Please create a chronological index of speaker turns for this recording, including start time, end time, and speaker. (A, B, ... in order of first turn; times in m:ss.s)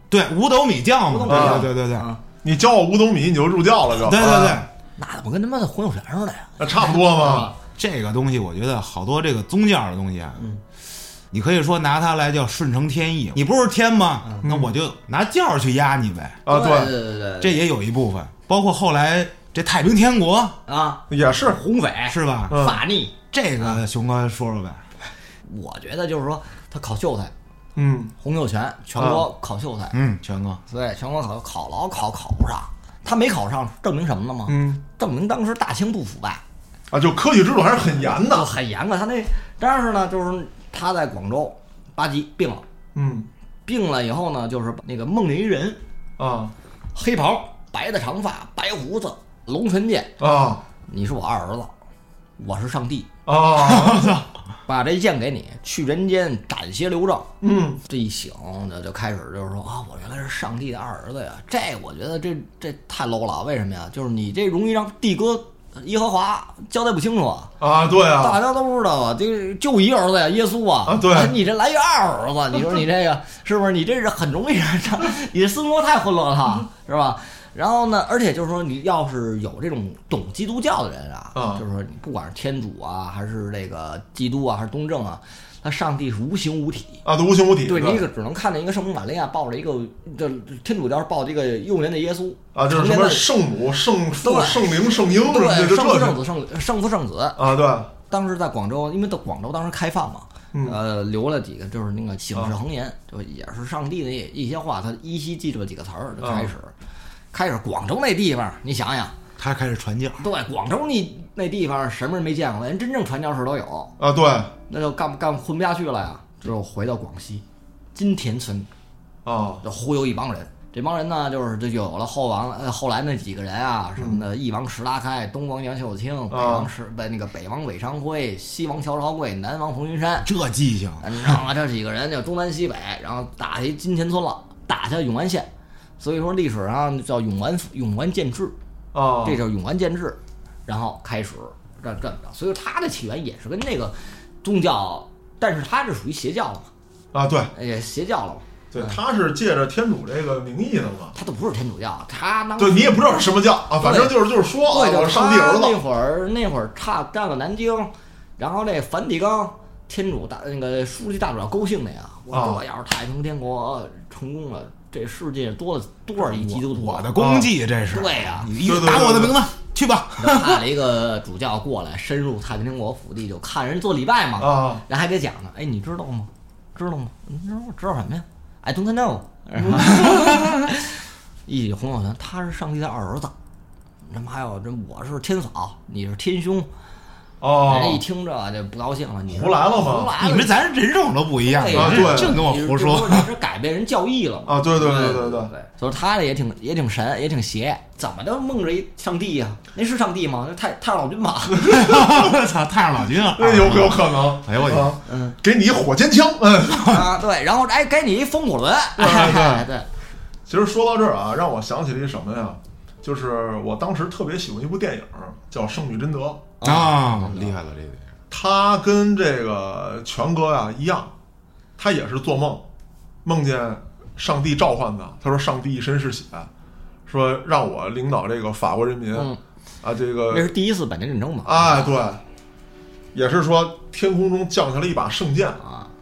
0:00.1-0:02.1 A
0:01.1-0:02.2 B
0:01.3-0:01.7 C
0:02.4-0:04.7 C
0:04.0-0:04.7 A
0:05.0-0:07.6 B
0:06.6-0:07.5 C
0:07.8-0:10.4 A
0:11.3-0:16.4 A
0:14.4-0:14.7 C
0:16.4-0:17.0 C
0:16.5-0:17.6 B
0:17.4-0:20.6 A
0:20.7-0:23.8 B
0:21.1-0:21.6 C
0:22.1-0:22.6 A
0:22.5-0:22.8 C
0:23.3-0:24.8 A
0:25.4-0:27.3 B
0:27.8-0:28.1 C
0:28.2-0:30.0 B
0:29.0-0:29.3 C
0:29.9-0:30.6 A
0:30.7-0:36.4 B
0:34.5-0:34.8 C
0:36.9-0:38.5 C
0:38.0-0:42.6 B
0:43.0-0:43.3 C
0:43.7-0:45.8 B
0:46.2-0:46.5 C
0:47.0-0:50.1 B
0:50.2-0:50.6 C
0:50.9-0:51.7 B
0:52.4-0:53.1 B
0:53.3-0:54.2 C
0:53.6-0:54.2 A
0:54.7-0:57.3 B
0:57.4-0:57.8 C
0:57.8-1:07.5 B
1:07.6-1:08.4 C
1:08.1-1:27.0 B
1:10.9-1:11.4 C
1:21.4-1:21.6 C
1:27.0-1:28.1 C
1:27.7-1:33.3 B
1:32.5-1:36.2 C
1:34.2-1:37.4 B
1:37.4-1:37.9 C
1:38.1-1:46.7 B
1:40.5-1:40.8 C
1:46.2-1:46.5 C
1:47.3-1:49.2 B
1:49.4-1:50.2 A
1:50.2-1:53.9 B
1:54.0-1:54.5 C
1:54.7-1:57.4 B
1:58.0-1:58.7 B
1:59.2-1:59.6 C
1:59.6-2:10.3 B
2:04.0-2:04.2 C
2:06.3-2:06.7 C
2:10.2-2:11.4 A
2:11.0-2:18.6 B
2:18.9-2:19.4 C
2:19.2-2:26.7 B
2:27.1-2:27.5 C
2:27.5-2:29.0 B
2:28.7-2:31.2 C
2:31.2-2:33.2 B
2:32.6-2:35.8 C
2:33.8-2:47.1 B
2:42.3-2:42.6 C
2:46.3-2:50.6 A
2:47.2-2:47.5 C
2:47.9-2:48.5 B
2:48.6-2:49.4 C
2:50.2-3:03.3 B
2:54.4-2:54.8 C
2:59.6-3:00.0 C
3:04.0-3:06.7 B
3:07.4-3:08.0 C
3:07.6-3:10.5 B
3:09.3-3:10.1 C
3:10.2-3:13.3 A
3:11.5-3:21.9 B
3:11.7-3:12.4 C
3:14.5-3:15.5 C
3:21.6-3:25.0 A
3:23.4-3:27.0 C
3:25.1-3:25.4 B
3:26.9-3:29.9 B
3:29.0-3:29.7 C
3:30.5-3:36.5 C
3:36.6-3:37.5 B
3:36.6-3:38.1 A
3:38.3-3:41.1 C
3:41.8-3:42.6 C
3:43.2-3:46.5 C
3:47.1-3:49.3 C
3:49.1-3:49.4 B
3:49.8-3:50.5 C
3:50.3-3:52.0 B
3:51.4-3:52.2 C
3:53.1-3:55.6 C
3:55.6-3:55.9 B